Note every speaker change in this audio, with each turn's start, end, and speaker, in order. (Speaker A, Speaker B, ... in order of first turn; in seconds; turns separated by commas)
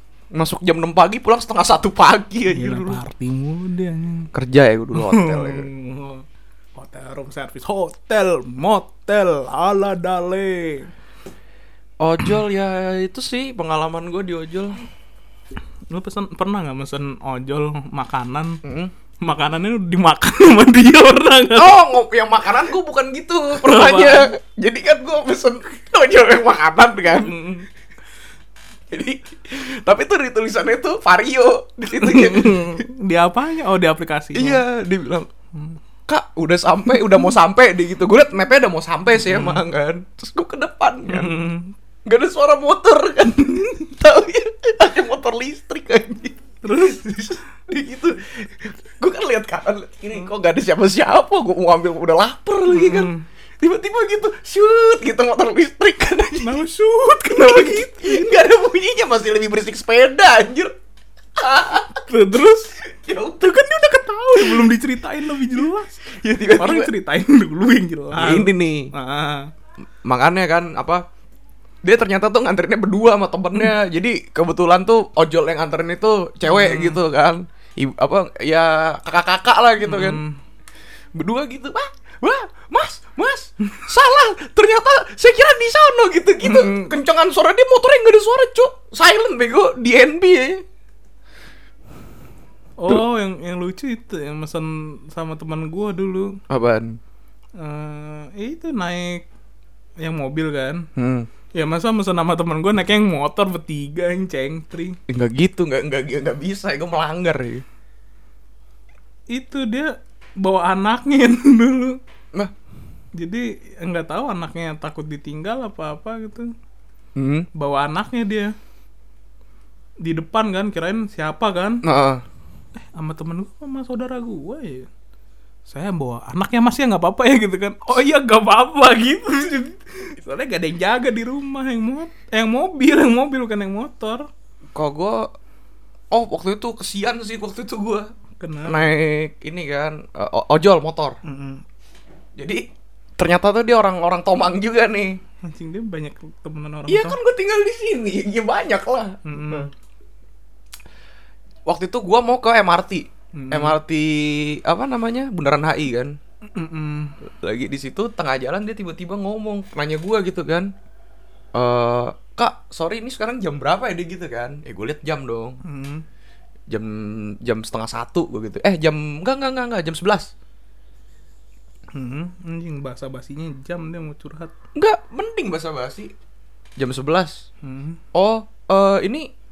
Speaker A: 0.3-3.0, Speaker B: 2.5-4.3, Speaker A: 4.3-5.7, Speaker B: 4.9-6.2, Speaker B: 6.8-10.9, Speaker A: 12.0-14.8, Speaker B: 15.9-18.6, Speaker A: 18.6-18.9, Speaker B: 19.2-21.8, Speaker A: 21.5-27.4, Speaker B: 23.5-24.3, Speaker B: 27.1-27.7, Speaker A: 28.9-32.8, Speaker B: 31.9-34.6, Speaker A: 34.3-35.3, Speaker A: 36.1-41.4, Speaker B: 39.2-39.6, Speaker B: 41.1-41.7, Speaker A: 42.0-56.6, Speaker B: 43.5-43.8, Speaker B: 46.6-47.4, Speaker B: 52.7-53.2, Speaker B: 56.4-58.3, Speaker A: 57.3-60.7, Speaker A: 61.4-62.0, Speaker B: 62.0-62.8, Speaker A: 62.8-63.7, Speaker B: 63.4-69.5, Speaker A: 64.3-64.7, Speaker A: 66.1-66.9, Speaker A: 68.1-68.9, Speaker A: 70.0-71.0, Speaker A: 71.8-80.2, Speaker B: 76.5-77.0, Speaker B: 79.8-80.4, Speaker A: 81.1-90.6, Speaker B: 86.4-86.9, Speaker B: 92.8-96.4, Speaker A: 96.5-97.0, Speaker B: 97.6-99.2, Speaker B: 100.0-100.8, Speaker A: 101.0-101.3, Speaker B: 101.5-105.0, Speaker A: 105.1-107.6, Speaker B: 109.3-112.0, Speaker B: 113.2-116.5, Speaker A: 117.2-117.5, Speaker B: 117.5-118.5, Speaker B: 120.0-121.8, Speaker A: 121.8-122.2, Speaker B: 122.8-124.9, Speaker B: 125.7-134.2, Speaker A: 134.7-135.3, Speaker A: 136.1-138.1, Speaker B: 138.4-138.9, Speaker A: 138.7-141.2, Speaker B: 141.2-141.6, Speaker A: 142.4-142.6, Speaker A: 143.2-145.2, Speaker B: 145.4-147.2, Speaker A: 146.9-149.7, Speaker B: 149.2-149.7, Speaker A: 151.7-156.2, Speaker B: 153.3-153.8, Speaker B: 156.5-157.1, Speaker A: 157.2-160.7, Speaker A: 161.5-165.6, Speaker B: 165.6-166.0, Speaker A: 166.7-170.3, Speaker B: 171.9-174.5, Speaker A: 174.8-176.1, Speaker A: 176.8-177.4, Speaker B: 177.6-178.0, Speaker A: 178.1-179.3